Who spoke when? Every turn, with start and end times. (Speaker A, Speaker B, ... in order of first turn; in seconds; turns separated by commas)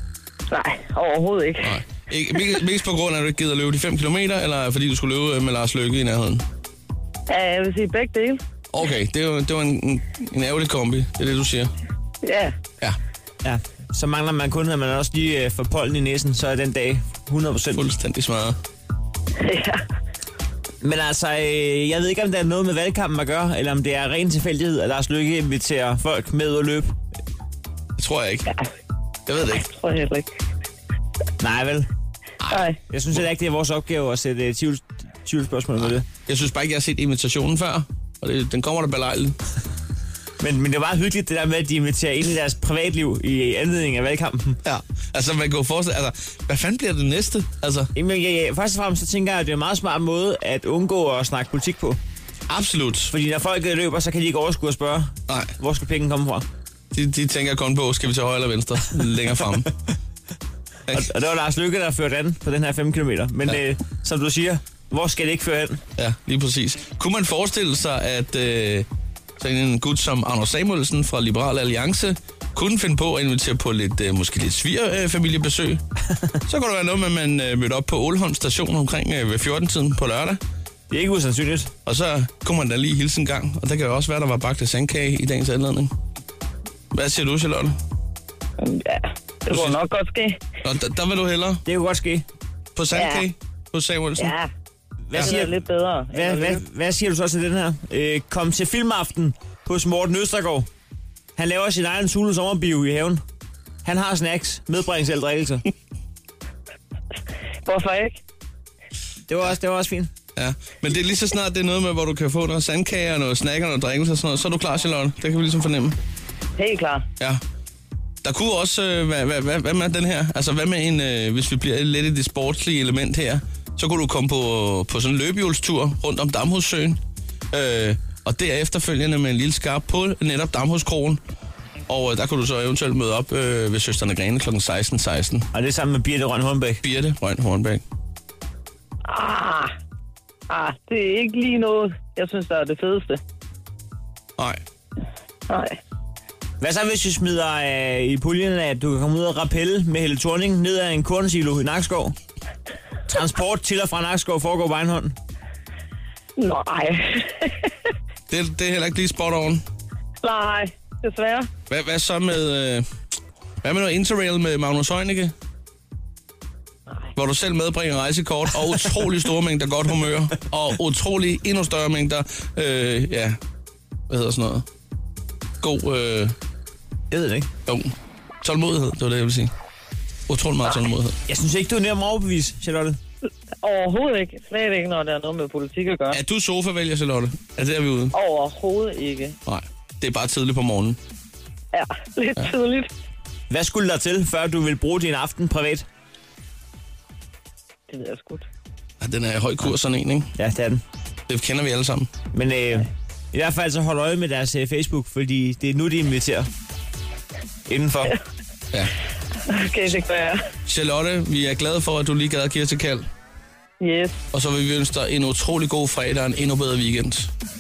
Speaker A: 0.5-1.8, Speaker B: 1.6-6.4, Speaker A: 7.3-8.4, Speaker B: 8.7-11.7, Speaker A: 12.2-12.5, Speaker C: 13.4-17.8, Speaker B: 17.7-18.6, Speaker A: 19.4-19.8, Speaker C: 20.8-26.9, Speaker B: 28.0-28.5, Speaker B: 29.3-29.6, Speaker A: 29.5-30.3, Speaker C: 31.4-31.9, Speaker A: 32.5-32.8, Speaker C: 32.9-36.0, Speaker B: 36.2-39.4, Speaker C: 40.4-44.6, Speaker B: 44.6-47.9, Speaker C: 47.9-52.0, Speaker B: 52.5-53.1, Speaker C: 53.1-56.5, Speaker B: 56.9-59.7, Speaker C: 60.9-65.8, Speaker B: 66.0-68.9, Speaker B: 69.4-75.8, Speaker B: 76.5-80.4, Speaker C: 80.9-81.7, Speaker B: 81.8-85.9, Speaker B: 86.9-87.8, Speaker A: 88.6-90.4, Speaker B: 89.5-89.8, Speaker B: 90.6-91.6, Speaker C: 91.6-92.2, Speaker B: 92.8-94.3, Speaker A: 92.9-93.2, Speaker A: 94.2-94.5, Speaker C: 95.1-95.5, Speaker A: 95.1-96.6, Speaker C: 96.1-100.7, Speaker C: 101.4-103.2, Speaker C: 103.8-105.6, Speaker A: 107.6-108.2, Speaker C: 109.3-110.1, Speaker B: 110.3-116.0, Speaker A: 116.6-117.0, Speaker B: 118.2-127.0, Speaker B: 127.5-131.2, Speaker B: 131.9-135.5, Speaker C: 135.5-136.8, Speaker B: 136.8-137.8, Speaker A: 139.1-139.7, Speaker A: 140.5-143.2, Speaker A: 145.5-145.8, Speaker C: 146.6-152.2, Speaker C: 153.1-155.1, Speaker A: 156.4-157.7, Speaker B: 158.3-159.6, Speaker A: 160.2-161.5, Speaker B: 161.7-162.9, Speaker B: 163.6-165.3, Speaker B: 167.2-173.4, Speaker B: 174.1-174.6, Speaker B: 175.6-176.3, Speaker C: 177.1-177.5, Speaker B: 177.7-179.5, Speaker B: 180.3-181.2, Speaker C: 181.3-183.0, Speaker A: 183.6-186.2, Speaker B: 186.1-188.1, Speaker A: 188.1-189.3, Speaker B: 189.4-191.0, Speaker A: 191.7-192.9, Speaker C: 193.5-195.8, Speaker A: 197.9-198.4, Speaker B: 199.0-200.3, Speaker C: 200.3-200.8, Speaker B: 201.3-202.1, Speaker C: 202.3-206.5, Speaker C: 207.7-208.2, Speaker A: 209.5-210.4, Speaker B: 210.7-213.1, Speaker A: 213.8-214.2, Speaker B: 214.3-217.3